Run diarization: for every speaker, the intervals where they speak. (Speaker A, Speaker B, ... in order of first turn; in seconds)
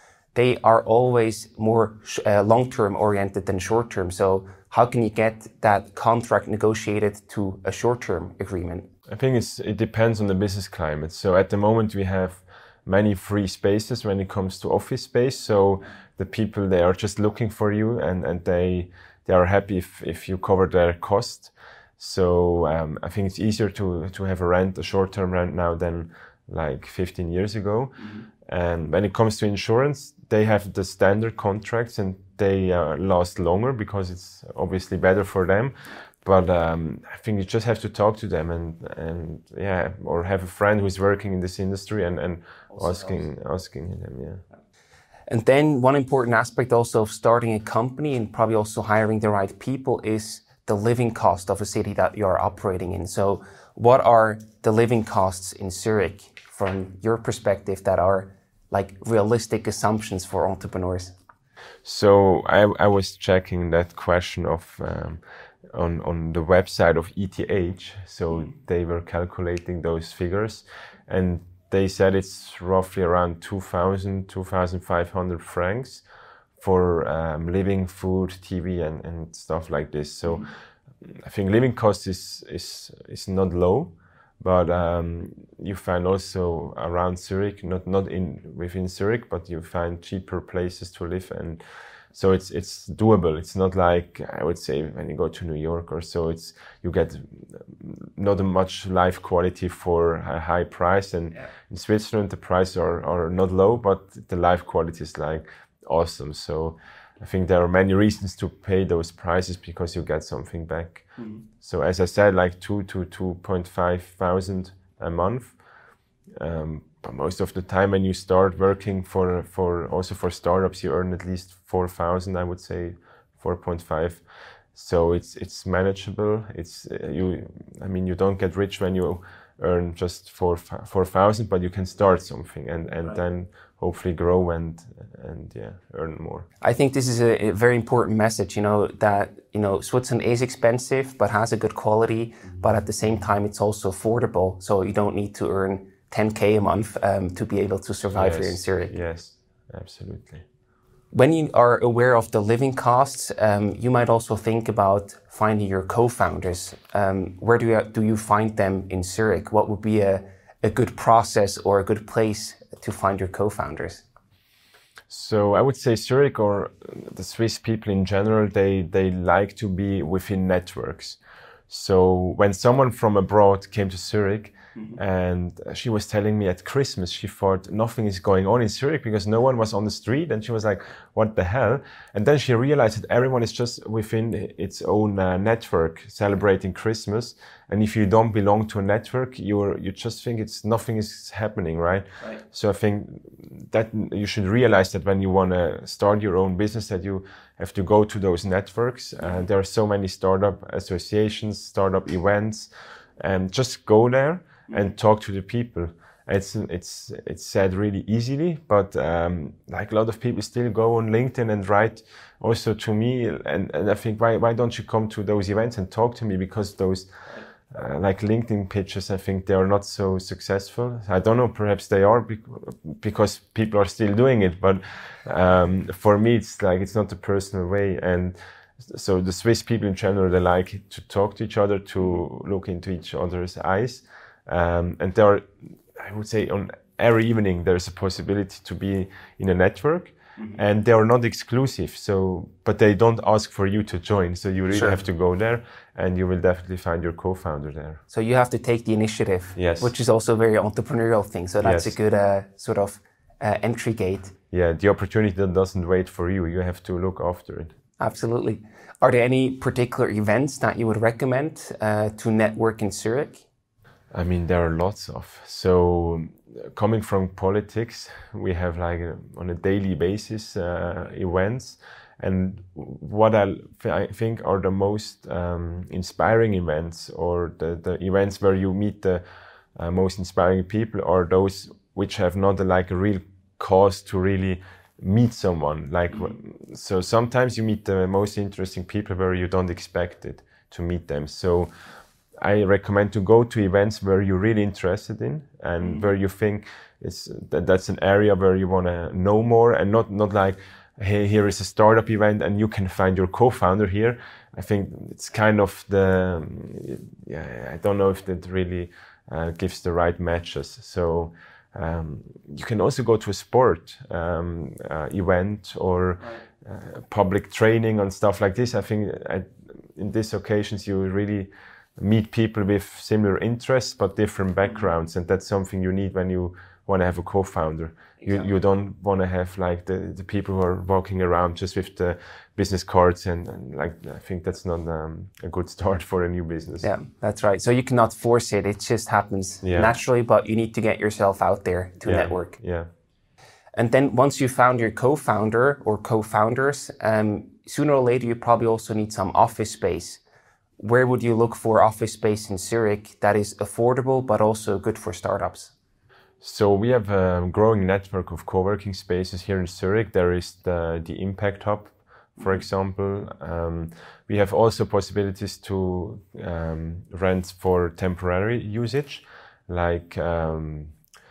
Speaker A: 0.3-8.9, 45.3-61.1, 136.6-148.9, 151.1-164.0, 244.7-245.0, 248.1-254.3, 258.0-263.4, 336.8-342.6, 343.8-350.2, 350.8-355.7
Speaker B: 9.1-44.4, 61.9-65.2, 65.7-76.0, 76.6-80.5, 81.0-91.6, 92.1-111.1, 111.6-115.6, 116.4-124.2, 124.8-136.5, 148.1-150.4, 165.1-171.2, 171.7-217.1, 217.7-248.0, 249.6-249.9, 251.6-251.9, 254.5-257.7, 264.1-279.2, 279.8-291.7, 292.4-336.9, 339.6-339.9, 342.0-342.9, 356.4-370.9